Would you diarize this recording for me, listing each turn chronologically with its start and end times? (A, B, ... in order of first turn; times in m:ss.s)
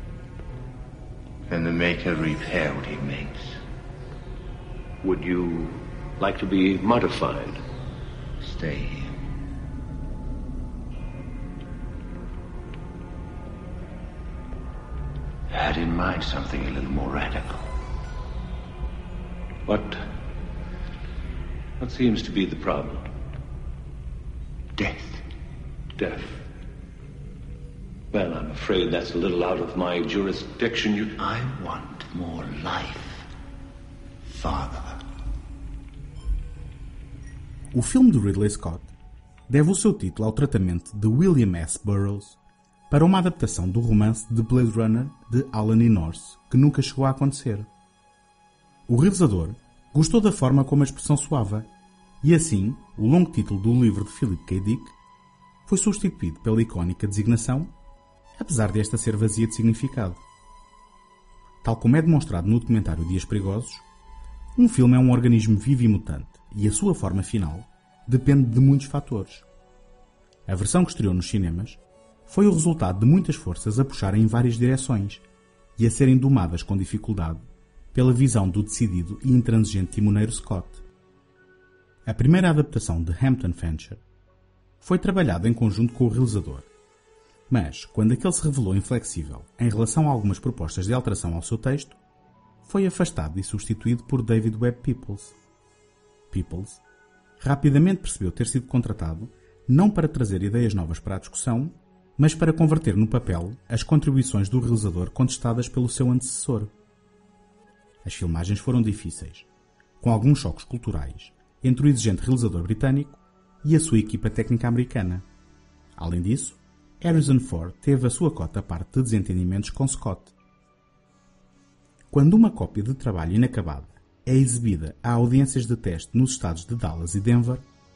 0:01.5-0:03.6 A
0:05.0-0:07.6 B
0:08.4-0:09.2 A
0:15.5-0:17.7 A
0:19.7-0:20.1 B
0:21.8-0:23.1 B
0:24.8-0:25.3 A
0:26.0-0:26.4 B
0:28.1-0:31.1 B
0:31.2-0:33.3 A
0:34.3-0:35.0 A
0:37.7-0:38.9 C
0:39.5-0:42.4 C
0:42.9-0:47.7 C
0:48.9-0:51.7 C
0:52.2-0:55.0 C
0:55.7-0:57.7 C
0:58.4-1:00.2 C
1:01.6-1:03.8 C
1:04.6-1:09.5 C
1:10.5-1:15.2 C
1:15.8-1:17.4 C
1:17.9-1:20.8 C
1:22.1-1:24.0 C
1:24.8-1:26.7 C
1:27.5-1:32.0 C
1:32.6-1:35.4 C
1:36.3-1:36.8 C
1:37.4-1:46.7 C
1:48.0-1:49.5 C
1:50.0-1:55.3 C
1:56.0-2:00.3 C
2:02.1-2:07.6 C